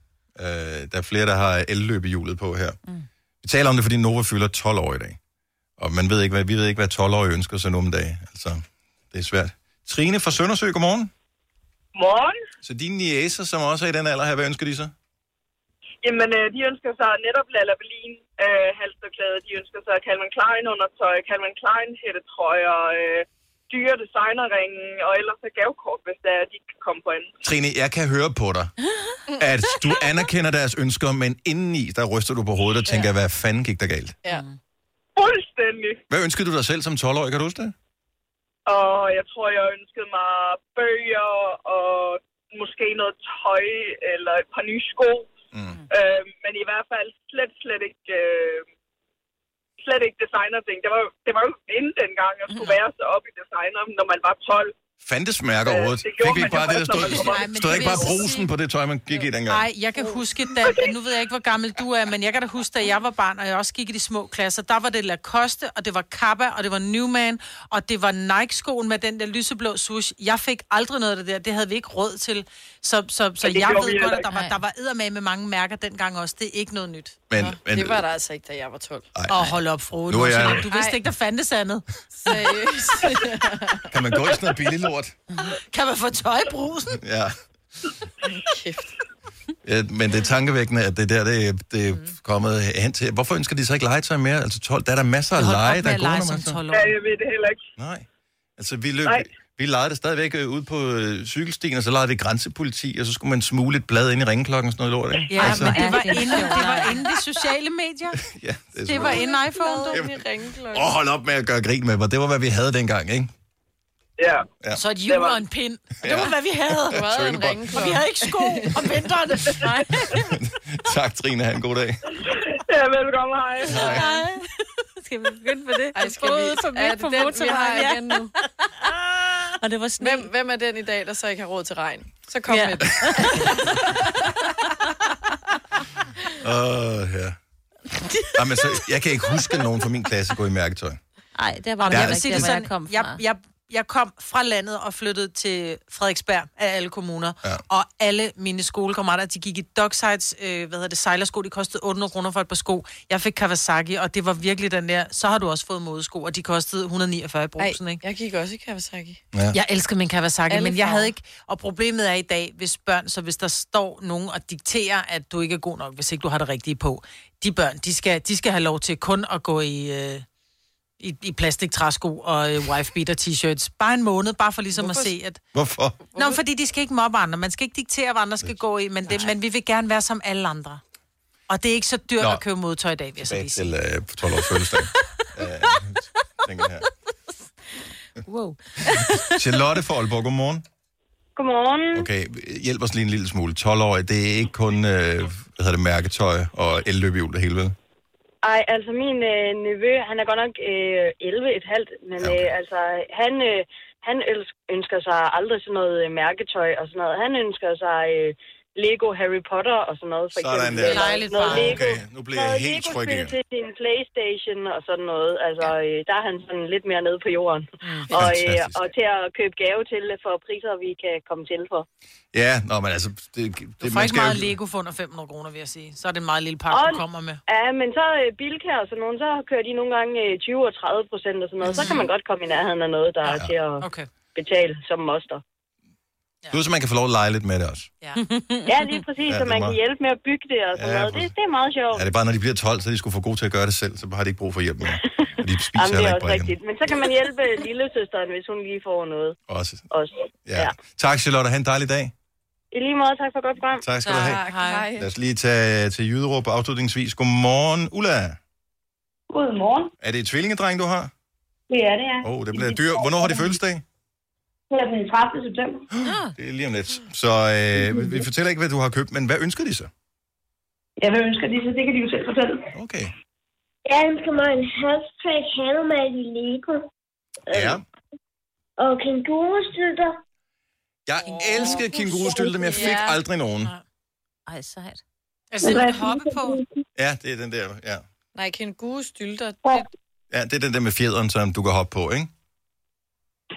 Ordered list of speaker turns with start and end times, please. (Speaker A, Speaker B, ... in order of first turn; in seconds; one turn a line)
Speaker A: 0.3-2.8
Speaker A: 3.4-5.2
Speaker A: 5.8-11.1
Speaker B: 11.9-12.3
Speaker A: 12.6-14.9
Speaker B: 16.0-27.3
Speaker A: 27.4-28.7
Speaker A: 29.4-34.1
Speaker B: 35.1-36.0
Speaker A: 36.1-37.7
Speaker B: 38.7-45.3
Speaker A: 45.5-45.8
Speaker B: 45.9-48.6
Speaker B: 49.8-54.7
Speaker A: 55.0-59.7
Speaker B: 55.6-58.2
Speaker C: 57.0-58.5
Speaker C: 59.5-77.2
Speaker B: 73.4-74.3
Speaker A: 77.3-78.0
Speaker D: 77.3-79.1
Speaker A: 79.1-80.7
Speaker C: 79.3-81.8
Speaker D: 80.7-81.0
Speaker D: 82.1-83.9
Speaker A: 83.9-85.2
Speaker C: 85.4-87.0
Speaker A: 87.0-87.3
Speaker D: 88.2-88.9
Speaker A: 89.6-96.6
Speaker C: 95.3-97.0
Speaker B: 96.7-97.6
Speaker A: 97.8-106.3
Speaker E: 105.3-107.0
Speaker C: 105.3-108.2
Speaker A: 108.2-109.2
Speaker C: 108.9-110.0
Speaker D: 108.9-110.9
Speaker A: 109.9-113.3
Speaker B: 114.2-114.5
Speaker C: 114.7-119.8
Speaker B: 115.0-115.4
Speaker A: 116.0-117.7
Speaker D: 116.9-118.9
Speaker E: 119.6-119.9
Speaker A: 120.1-122.0
Speaker B: 122.7-124.0
Speaker A: 123.7-124.0
Speaker E: 123.8-124.4
Speaker E: 125.0-128.2
Speaker D: 125.9-128.3
Speaker E: 129.6-130.3
Speaker D: 130.0-133.9
Speaker E: 132.5-133.4
Speaker A: 136.4-137.4
Speaker A: 138.3-141.0
Speaker E: 141.3-143.2
Speaker C: 141.8-158.0
Speaker A: 141.9-142.6
Speaker D: 157.6-159.2
Speaker A: 159.3-159.6
Speaker C: 159.5-170.2
Speaker D: 160.5-161.1
Speaker C: 171.0-175.4
Speaker D: 174.7-175.1
Speaker A: 175.5-176.0
Speaker D: 176.1-176.4
Speaker C: 176.1-180.8
Speaker C: 181.5-183.7
Speaker A: 182.2-182.4
Speaker A: 183.2-186.9
Speaker E: 188.2-189.3
Speaker A: 189.2-190.6
Speaker F: 191.3-192.1
Speaker A: 191.9-197.7
Speaker F: 198.4-221.8
Speaker A: 202.2-202.5
Speaker A: 210.3-213.3
Speaker C: 210.9-211.8
Speaker A: 218.1-218.9
Speaker A: 222.3-224.5
Speaker C: 223.8-227.4
Speaker F: 226.7-235.4
Speaker C: 231.6-232.1
Speaker A: 233.3-233.5
Speaker C: 233.3-234.1
Speaker A: 236.5-237.9
Speaker E: 238.2-238.7
Speaker F: 238.7-242.0
Speaker A: 239.2-239.8
Speaker A: 240.7-241.3
Speaker A: 241.9-246.6
Speaker F: 245.7-249.3
Speaker A: 249.5-249.9
Speaker F: 249.9-250.7
Speaker A: 250.4-252.1
Speaker F: 252.7-253.8
Speaker A: 253.8-254.4
Speaker C: 254.0-254.9
Speaker D: 254.1-255.1
Speaker A: 255.0-258.4
Speaker G: 259.3-259.9
Speaker A: 260.0-261.1
Speaker G: 261.7-263.6
Speaker A: 262.2-263.8
Speaker G: 264.7-265.8
Speaker A: 265.9-269.9
Speaker E: 266.0-266.3
Speaker G: 267.8-268.2
Speaker G: 271.0-272.6
Speaker A: 272.7-273.1
Speaker H: 273.9-276.8
Speaker H: 277.5-277.8
Speaker A: 277.5-277.8
Speaker H: 278.8-280.2
Speaker A: 281.1-283.7
Speaker H: 282.1-282.5
Speaker D: 282.7-283.2
Speaker E: 284.5-285.0
Speaker C: 285.5-286.6
Speaker G: 285.6-286.8
Speaker A: 286.9-288.0
Speaker D: 288.3-289.9
Speaker A: 290.3-292.3